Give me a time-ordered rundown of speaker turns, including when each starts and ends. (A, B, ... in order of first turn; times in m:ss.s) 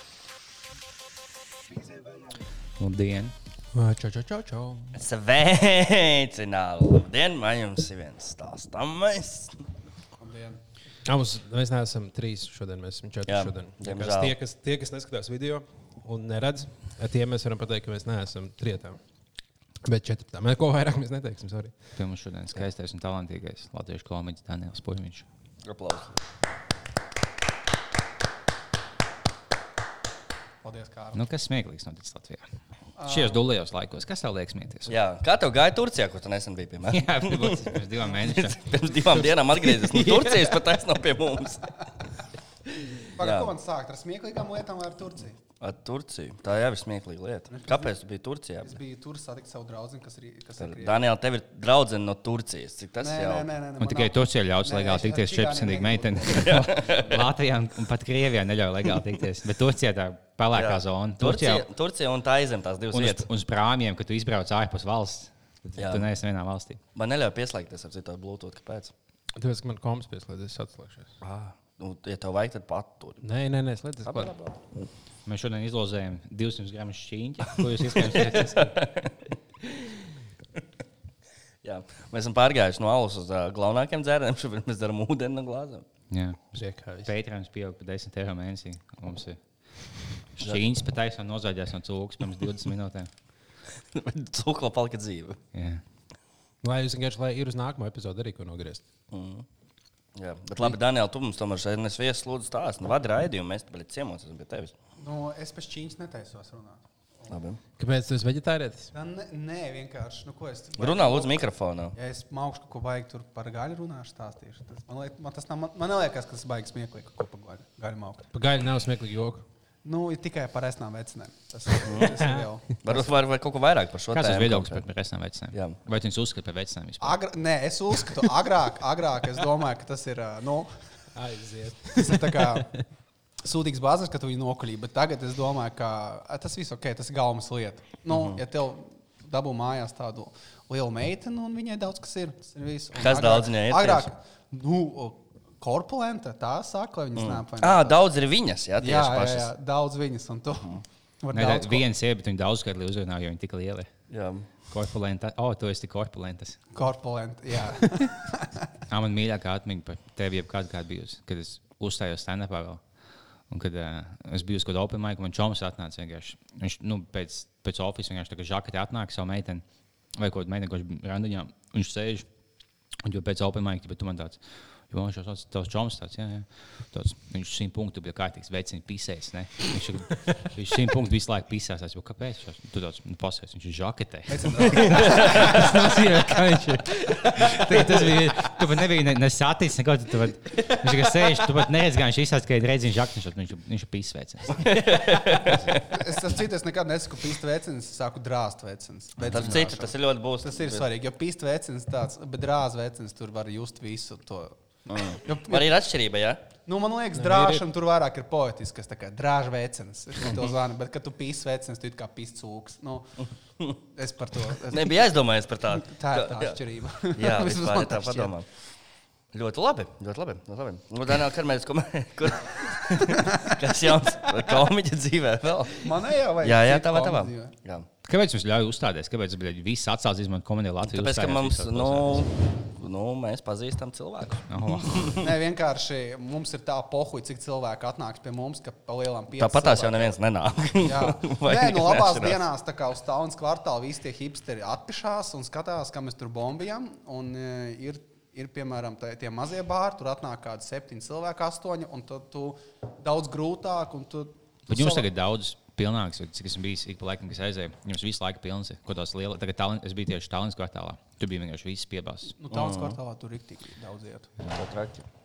0:02.8-0:03.3 A
0:03.7-0:05.0 B
0:04.9-0:09.6 C
0:10.2-0:10.6 D
0:11.0-0:19.0 B
0:13.3-0:14.4 C
0:19.8-0:21.7 B
0:22.0-0:25.2 A
0:25.6-0:26.2 C
0:30.6-0:31.2 D
0:31.1-0:32.4 A
0:33.0-0:33.4 D
0:33.0-0:34.9 A
0:34.9-0:41.7 C
0:36.9-0:38.6 A
0:39.1-0:40.7 B
0:43.1-0:45.4 D
0:43.2-0:43.5 C
0:45.6-0:48.7 C
0:47.5-0:47.9 D
0:48.6-0:51.0 D
0:50.6-0:53.5 C
0:53.0-0:57.3 D
0:53.8-1:01.6 A
0:56.3-0:57.2 C
1:00.5-1:03.2 C
1:02.9-1:06.8 A
1:05.8-1:06.1 C
1:06.9-1:08.9 C
1:09.4-1:11.1 B
1:11.2-1:13.2 C
1:13.2-1:14.3 B
1:14.0-1:14.6 C
1:15.2-1:18.7 A
1:17.6-1:19.2 C
1:21.6-1:25.8 C
1:26.1-1:29.4 A
1:26.5-1:27.1 B
1:30.4-1:33.1 A
1:33.9-1:35.4 C
1:35.5-1:35.8 A
1:36.6-1:38.8 B
1:39.1-1:39.4 C
1:40.2-1:44.7 C
1:45.0-1:47.4 D
1:47.3-1:47.6 C
1:47.8-1:48.9 B
1:48.9-1:51.4 D
1:50.8-1:51.9 C
1:51.9-1:58.3 D
1:58.3-1:59.4 B
1:59.8-2:03.0 D
2:01.8-2:02.2 C
2:02.8-2:04.8 C
2:04.1-2:07.2 A
2:05.5-2:05.8 C
2:07.0-2:10.7 D
2:11.1-2:12.8 B
2:12.0-2:12.8 D
2:13.4-2:28.0 D
2:18.1-2:18.4 C
2:23.0-2:24.1 C
2:27.2-2:29.5 C
2:28.8-2:31.8 D
2:31.3-2:33.9 A
2:34.1-2:34.5 C
2:34.7-2:36.6 A
2:36.7-2:38.6 D
2:38.9-2:42.8 A
2:43.5-2:49.6 A
2:50.1-2:52.2 A
2:53.0-3:14.7 A
3:04.3-3:05.7 D
3:07.2-3:08.1 B
3:14.6-3:15.9 C
3:15.9-3:24.5 D
3:19.2-3:19.6 A
3:19.3-3:20.8 C
3:24.9-3:26.4 C
3:25.1-3:25.7 D
3:26.6-3:33.2 D
3:27.1-3:27.6 B
3:30.2-3:30.5 C
3:33.9-3:35.1 D
3:34.7-3:36.6 C
3:35.8-3:38.3 D
3:37.1-3:38.5 C
3:39.3-3:45.9 C
3:45.8-3:47.5 D
3:46.4-3:47.9 C
3:48.0-3:52.2 A
3:50.9-3:55.3 C
3:54.5-3:55.2 A
3:55.2-4:00.2 D
3:59.4-4:02.4 C
4:00.8-4:15.1 D
4:14.7-4:22.3 A
4:22.4-4:24.3 D
4:22.5-4:23.0 C
4:24.5-4:25.0 C